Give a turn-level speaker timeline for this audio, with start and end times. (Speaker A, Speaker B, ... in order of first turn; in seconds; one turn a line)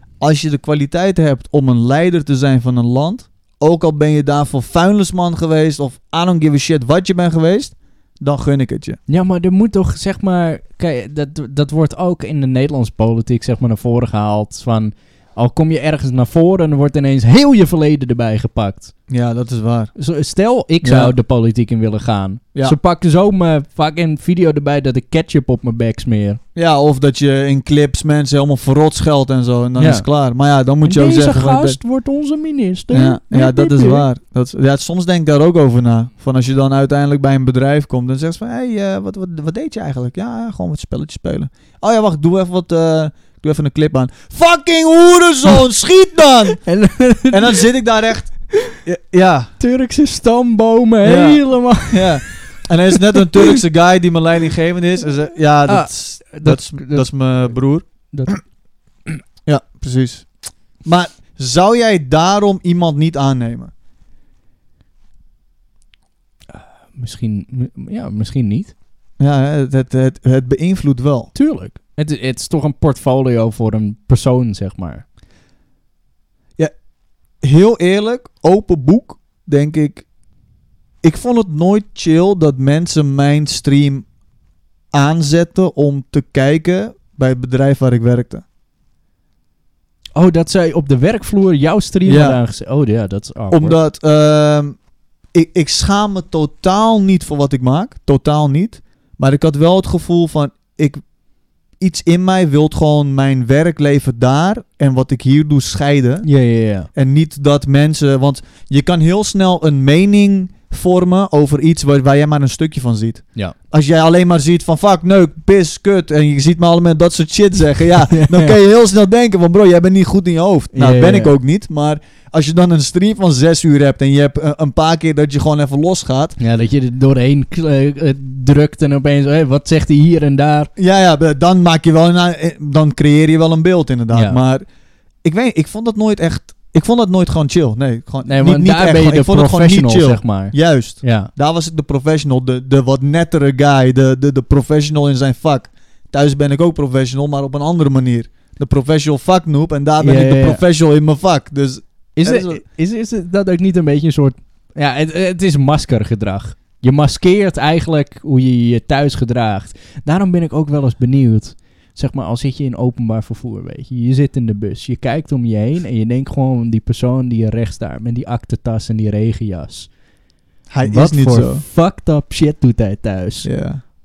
Speaker A: 0.2-9.0
Speaker B: 9.1-18.9
Speaker A: 19.1-19.9
Speaker B: 19.9-26.4
Speaker A: 20.8-21.1
Speaker A: 26.5-31.8
Speaker B: 29.8-30.1
Speaker B: 30.8-34.0
Speaker A: 32.9-46.6
Speaker B: 46.6-47.6
Speaker A: 47.3-48.3
Speaker A: 48.8-49.5
Speaker B: 49.6-53.6
Speaker A: 51.0-58.3
Speaker B: 55.7-57.1
Speaker B: 58.1-58.4
Speaker A: 59.5-60.3
Speaker A: 60.8-63.7
Speaker B: 66.5-68.7
Speaker A: 69.2-71.3
Speaker B: 71.3-75.0
Speaker A: 77.4-80.0
Speaker A: 81.0-84.0
Speaker A: 84.9-88.4
Speaker B: 90.2-93.8
Speaker A: 92.0-92.4
Speaker A: 93.5-94.8
Speaker A: 95.3-101.0
Speaker A: 101.8-106.3
Speaker B: 106.2-106.9
Speaker A: 106.9-126.4
Speaker B: 118.1-118.5
Speaker B: 120.7-121.3
Speaker B: 126.4-130.7
Speaker A: 130.8-134.6
Speaker B: 134.1-134.4
Speaker A: 135.2-152.6
Speaker B: 138.2-141.3
Speaker B: 150.0-150.6
Speaker B: 152.2-169.9
Speaker A: 170.7-171.6
Speaker B: 170.8-173.5
Speaker A: 173.4-173.8